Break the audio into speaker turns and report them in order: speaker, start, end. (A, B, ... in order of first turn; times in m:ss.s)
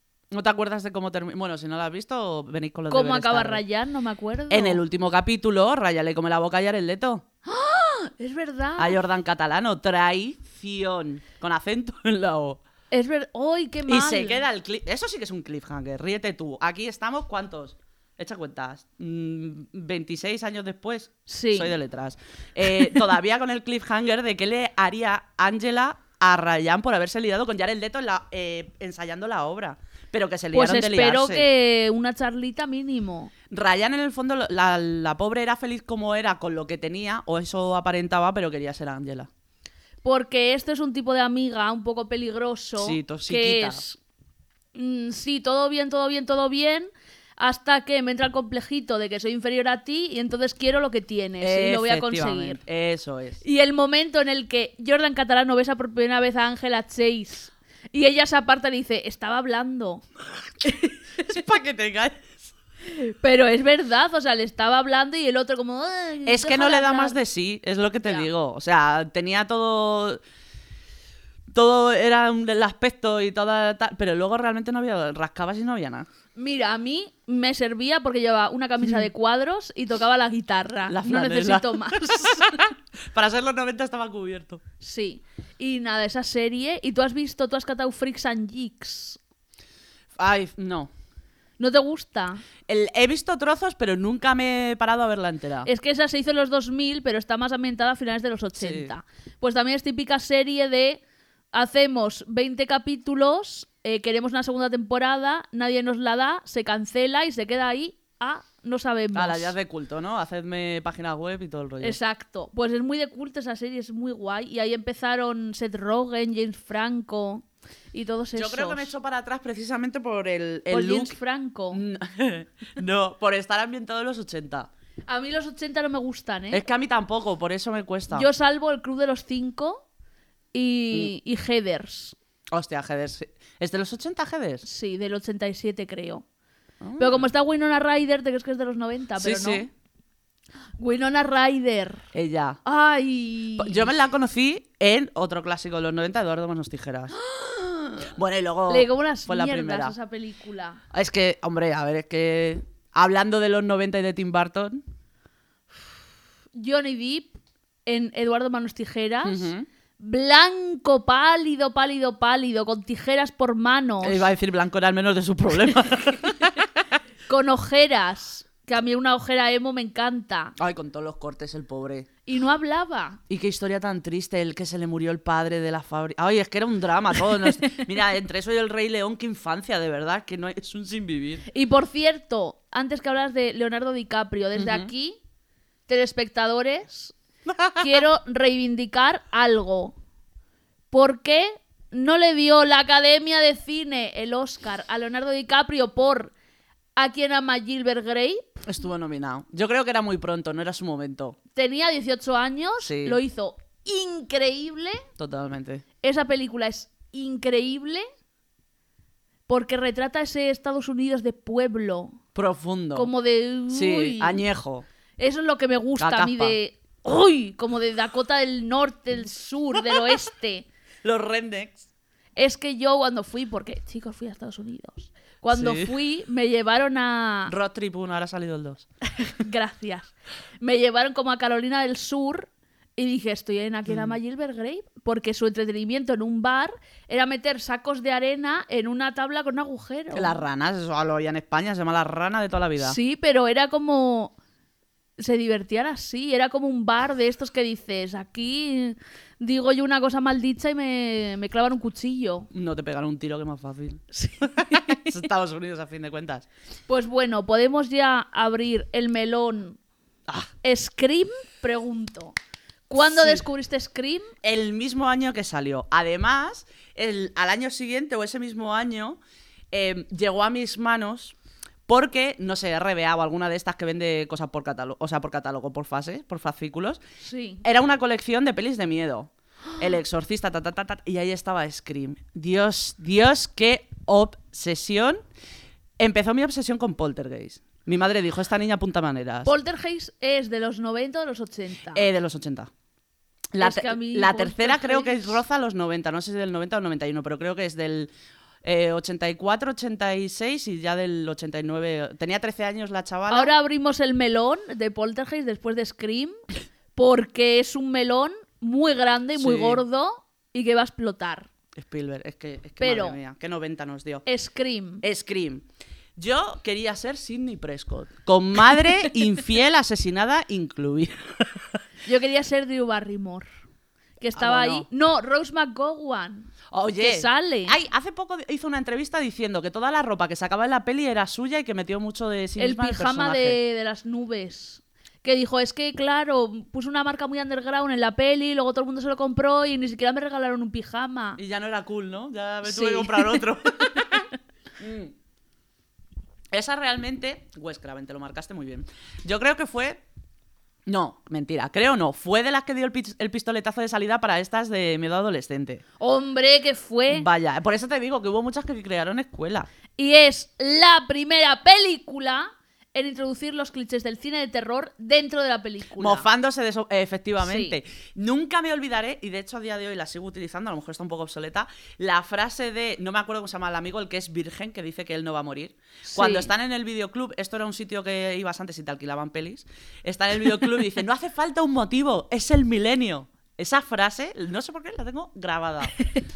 0:00.3-0:03.6 A
0:02.9-0:04.8 B
0:04.5-0:07.2 A
0:07.4-0:09.0 B
0:08.8-0:12.6 A
0:12.9-0:14.4 B
0:13.9-0:31.4 A
0:21.3-0:21.7 B
0:30.5-0:33.3 B
0:33.5-0:39.3 A
0:40.0-0:44.0 B
0:42.8-0:43.8 A
0:44.7-0:52.6 B
0:51.4-0:53.4 A
0:53.4-1:00.0 B
1:00.6-1:01.0 B
1:01.2-1:02.5 A
1:02.8-1:07.2 B
1:06.2-1:10.2 A
1:08.0-1:08.3 B
1:11.5-1:16.1 A
1:16.4-1:22.6 B
1:20.9-1:24.6 A
1:24.8-1:29.2 B
1:30.2-1:30.9 A
1:31.6-1:32.4 B
1:32.7-1:35.7 A
1:35.6-1:41.0 B
1:38.6-1:38.9 A
1:41.5-1:49.5 B
1:49.1-1:52.0 A
1:51.8-1:58.9 B
1:58.3-2:01.2 A
2:00.7-2:01.8 B
2:01.7-2:04.7 A
2:05.1-2:06.6 B
2:06.5-2:08.3 A
2:08.1-2:09.8 B
2:10.5-2:12.2 B
2:12.5-2:14.6 A
2:14.6-2:16.2 B
2:16.8-2:17.3 A
2:17.0-2:19.6 B
2:19.2-2:19.7 A
2:20.8-2:22.0 B
2:22.1-2:22.6 A
2:22.6-2:23.9 B
2:23.6-2:27.2 A
2:27.2-2:28.1 B
2:28.1-2:29.9 A
2:28.7-2:30.8 B
2:30.9-2:34.8 A
2:36.5-2:44.3 B
2:39.2-2:39.6 A
2:44.0-2:46.7 A
2:47.3-2:50.5 B
2:50.6-2:52.1 A
2:52.2-2:53.2 B
2:53.3-3:01.4 A
3:01.5-3:05.2 B
3:04.6-3:04.9 A
3:05.9-3:07.1 B
3:07.5-3:07.9 A
3:07.8-3:10.0 B
3:10.9-3:16.3 B
3:17.0-3:18.6 B
3:18.6-3:21.4 A
3:21.5-3:25.0 B
3:22.8-3:23.2 A
3:25.2-3:25.8 A
3:26.0-3:28.0 B
3:29.5-3:32.2 B
3:32.4-3:33.1 A
3:32.9-3:34.4 B
3:33.7-3:34.9 A
3:35.2-3:40.6 B
3:36.0-3:36.6 A
3:41.0-3:41.8 A
3:42.4-3:47.5 B
3:45.5-3:45.9 A
3:47.5-3:48.9 A
3:49.2-4:00.4 B
3:53.9-3:54.1 A
4:00.1-4:03.0 A
4:02.8-4:04.4 B
4:05.2-4:12.5 B
4:12.5-4:16.5 A
4:14.1-4:15.2 B
4:16.9-4:19.8 B
4:20.6-4:22.4 B
4:22.9-4:24.3 B
4:23.0-4:23.4 A
4:24.4-4:29.2 A
4:29.7-4:31.4 A
4:31.9-4:37.0 A
4:37.2-4:37.6 B
4:37.6-4:45.2 A
4:46.0-4:49.5 A
4:49.4-4:52.1 B
4:51.9-4:52.7 A
4:53.5-4:58.1 A
4:53.6-4:55.4 B
4:58.6-5:03.5 A
5:03.3-5:06.4 B
5:06.9-5:11.5 B
5:09.4-5:09.8 A
5:11.8-5:14.2 A
5:12.8-5:13.2 B
5:14.2-5:15.0 B
5:15.0-5:15.6 A
5:16.2-5:21.6 A
5:22.0-5:23.5 B
5:24.2-5:27.8 B
5:24.3-5:24.9 A
5:26.7-5:33.6 A
5:32.6-5:41.4 B
5:41.4-5:45.1 A
5:42.6-5:44.2 B
5:46.5-5:50.0 A
5:50.9-5:55.8 A
5:56.0-5:57.2 B
5:57.1-5:59.7 A
6:00.0-6:06.2 B
6:06.0-6:26.0 A
6:07.4-6:07.8 B
6:16.1-6:16.5 B